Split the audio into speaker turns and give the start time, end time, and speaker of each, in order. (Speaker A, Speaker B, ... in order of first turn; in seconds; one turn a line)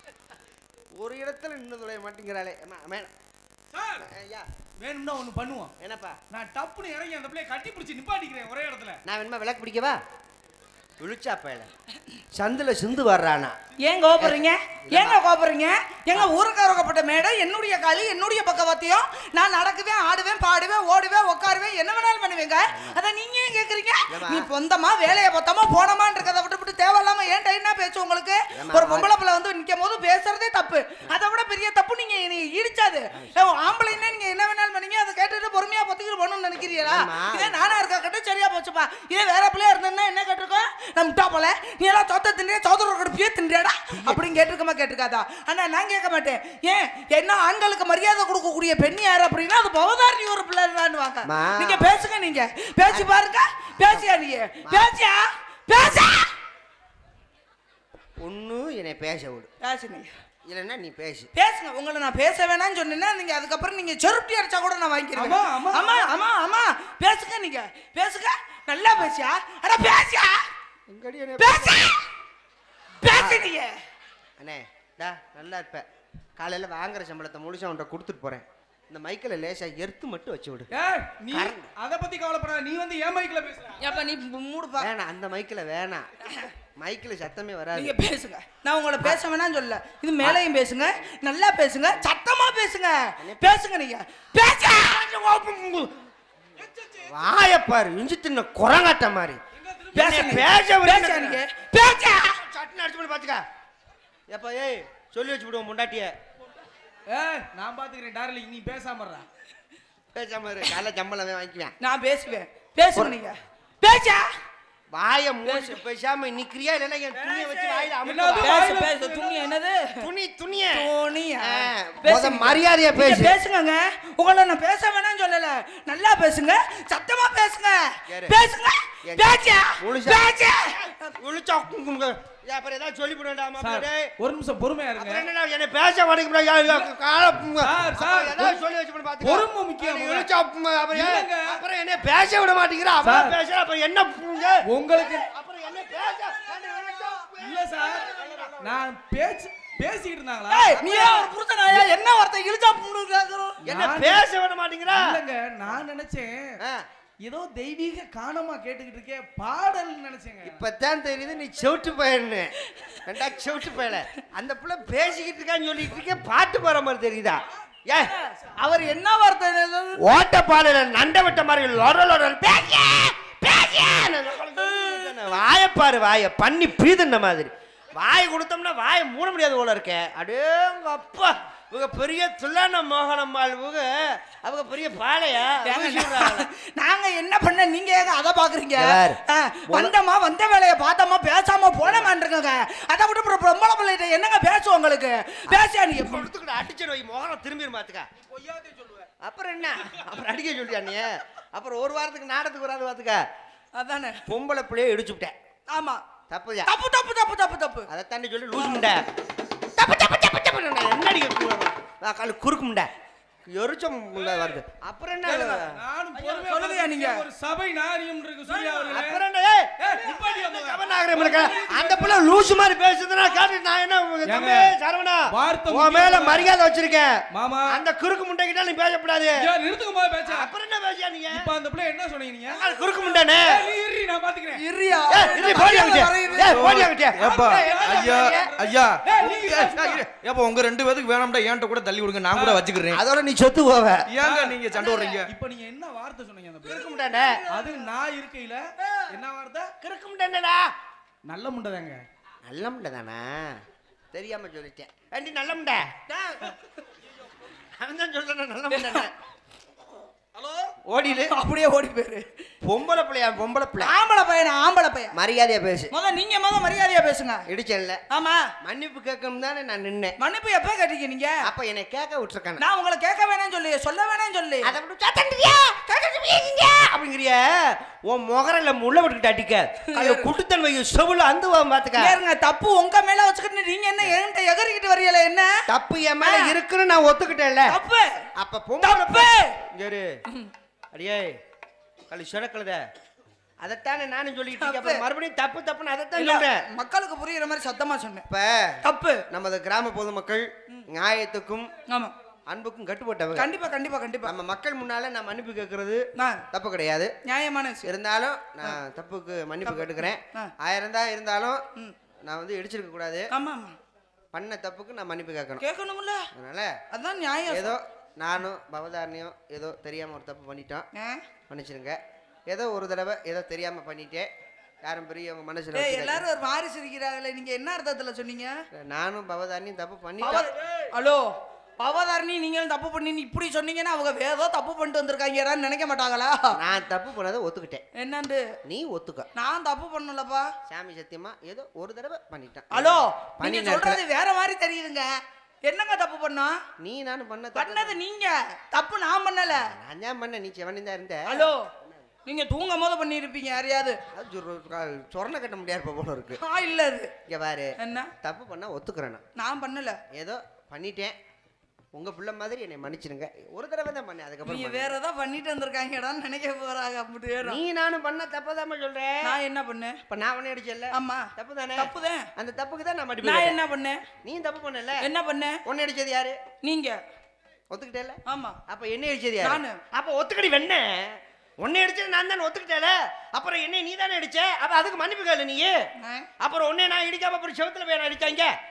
Speaker A: 1.0-3.1
Speaker B: 3.7-4.1
Speaker A: 4.0-4.5
Speaker B: 4.8-5.7
Speaker A: 5.8-6.2
Speaker B: 6.3-9.0
Speaker A: 9.0-10.0
Speaker A: 11.0-11.7
Speaker A: 12.3-13.6
Speaker C: 13.8-56.3
Speaker A: 14.2-15.2
Speaker A: 22.7-23.0
Speaker A: 24.1-24.5
Speaker A: 28.5-29.1
Speaker A: 36.8-37.6
Speaker A: 43.9-44.3
Speaker A: 51.2-52.0
Speaker A: 52.9-53.1
Speaker A: 53.7-54.1
Speaker A: 54.6-54.9
Speaker A: 58.2-59.5
Speaker C: 59.6-60.1
Speaker A: 60.5-61.3
Speaker C: 61.4-70.5
Speaker B: 65.2-66.1
Speaker A: 70.9-72.0
Speaker C: 71.4-72.0
Speaker C: 73.0-73.8
Speaker A: 73.0-73.5
Speaker A: 74.4-75.8
Speaker A: 76.4-80.7
Speaker B: 80.7-83.9
Speaker A: 81.3-81.7
Speaker C: 83.8-84.9
Speaker A: 84.8-86.1
Speaker C: 86.2-86.5
Speaker A: 86.8-88.0
Speaker C: 87.7-95.0
Speaker A: 93.2-93.6
Speaker A: 94.5-95.9
Speaker B: 96.5-97.2
Speaker A: 97.1-99.4
Speaker B: 99.5-100.5
Speaker A: 99.9-101.4
Speaker C: 99.9-102.4
Speaker A: 102.2-103.4
Speaker A: 104.3-106.1
Speaker B: 107.1-109.2
Speaker A: 110.1-111.7
Speaker C: 111.8-114.3
Speaker A: 112.9-113.3
Speaker A: 114.9-118.7
Speaker C: 115.5-115.8
Speaker B: 117.2-119.5
Speaker C: 118.4-120.0
Speaker A: 120.0-123.4
Speaker C: 120.7-131.0
Speaker A: 128.1-128.4
Speaker A: 129.0-134.1
Speaker B: 133.6-135.3
Speaker A: 134.9-148.7
Speaker B: 137.6-138.6
Speaker B: 139.2-140.3
Speaker B: 140.9-141.6
Speaker B: 143.0-143.4
Speaker B: 144.6-145.3
Speaker B: 147.3-150.8
Speaker C: 150.5-153.6
Speaker A: 150.8-151.3
Speaker B: 153.6-154.2
Speaker A: 153.7-155.2
Speaker B: 154.9-156.6
Speaker A: 156.6-156.8
Speaker B: 157.2-160.6
Speaker A: 160.4-168.1
Speaker C: 168.0-170.0
Speaker A: 170.0-186.5
Speaker C: 185.6-196.3
Speaker A: 188.8-189.9
Speaker A: 191.8-192.1
Speaker A: 195.5-198.1
Speaker B: 198.2-199.1
Speaker A: 199.2-203.2
Speaker C: 203.8-204.2
Speaker A: 204.2-205.3
Speaker C: 205.7-206.0
Speaker A: 206.3-206.7
Speaker C: 206.7-207.9
Speaker A: 207.9-209.1
Speaker C: 208.6-208.9
Speaker A: 209.7-212.9
Speaker A: 213.5-215.8
Speaker B: 214.2-214.6
Speaker B: 215.2-219.2
Speaker C: 216.2-217.2
Speaker A: 218.5-229.5
Speaker B: 219.8-222.2
Speaker B: 224.2-224.8
Speaker B: 225.3-226.5
Speaker B: 227.3-227.8
Speaker B: 229.4-230.5
Speaker A: 230.3-231.5
Speaker B: 231.3-234.6
Speaker A: 232.5-233.6
Speaker C: 234.6-236.7
Speaker A: 235.1-238.4
Speaker D: 236.4-243.0
Speaker B: 237.2-240.0
Speaker C: 237.3-238.3
Speaker B: 242.3-242.7
Speaker A: 242.9-244.1
Speaker D: 244.1-245.3
Speaker B: 244.2-244.7
Speaker B: 245.2-246.9
Speaker A: 246.6-247.4
Speaker B: 247.5-249.7
Speaker A: 249.8-250.7
Speaker B: 251.3-252.0
Speaker A: 252.4-256.5
Speaker A: 257.6-259.1
Speaker C: 258.7-259.0
Speaker B: 260.3-260.7
Speaker A: 260.9-261.4
Speaker C: 261.3-262.3
Speaker A: 262.6-263.9
Speaker C: 263.8-265.1
Speaker A: 265.1-265.9
Speaker C: 265.9-267.4
Speaker A: 267.5-268.0
Speaker C: 268.1-268.5
Speaker A: 268.6-270.1
Speaker C: 270.2-271.4
Speaker A: 271.4-272.6
Speaker C: 272.6-274.7
Speaker A: 274.6-282.2
Speaker C: 279.9-280.3
Speaker C: 282.0-285.6
Speaker A: 285.7-287.8
Speaker C: 286.2-286.5
Speaker C: 287.7-288.2
Speaker A: 288.4-290.1
Speaker C: 288.8-289.6
Speaker A: 290.9-291.4
Speaker A: 292.1-292.8
Speaker A: 293.6-296.6
Speaker C: 294.6-295.0
Speaker C: 296.1-298.2
Speaker A: 298.3-301.7
Speaker C: 298.8-299.2
Speaker C: 301.9-302.1
Speaker A: 302.5-303.5
Speaker C: 303.3-304.4
Speaker A: 304.2-307.1
Speaker C: 306.1-306.4
Speaker C: 307.2-307.9
Speaker A: 307.8-311.6
Speaker C: 309.6-310.5
Speaker A: 312.2-313.3
Speaker C: 313.3-313.8
Speaker A: 314.3-315.6
Speaker C: 315.6-316.3
Speaker A: 316.3-316.8
Speaker C: 316.9-317.7
Speaker A: 317.4-320.9
Speaker C: 320.9-321.2
Speaker A: 321.5-324.3
Speaker A: 324.8-326.2
Speaker C: 325.7-328.6
Speaker A: 328.7-330.5
Speaker C: 330.2-336.6
Speaker B: 330.3-330.8
Speaker A: 336.5-337.8
Speaker C: 337.9-338.5
Speaker A: 338.6-339.3
Speaker C: 339.4-340.5
Speaker A: 340.7-344.0
Speaker C: 342.7-345.1
Speaker C: 345.7-346.6
Speaker A: 346.8-348.0
Speaker C: 347.5-349.7
Speaker A: 349.5-351.9
Speaker C: 351.3-351.7
Speaker C: 352.2-354.0
Speaker A: 354.1-356.4
Speaker C: 356.4-357.1
Speaker A: 357.3-359.2
Speaker C: 357.8-358.1
Speaker C: 359.4-360.0
Speaker A: 360.1-361.2
Speaker A: 361.9-364.9
Speaker C: 364.4-367.6
Speaker A: 367.4-369.3
Speaker C: 369.2-370.0
Speaker A: 370.1-373.6
Speaker C: 370.9-372.3
Speaker C: 373.2-374.0
Speaker A: 374.2-375.1
Speaker C: 375.0-375.6
Speaker A: 375.6-376.4
Speaker C: 376.6-377.0
Speaker A: 377.7-385.8
Speaker C: 378.2-378.6
Speaker C: 379.4-379.8
Speaker C: 386.0-386.3
Speaker A: 386.4-388.5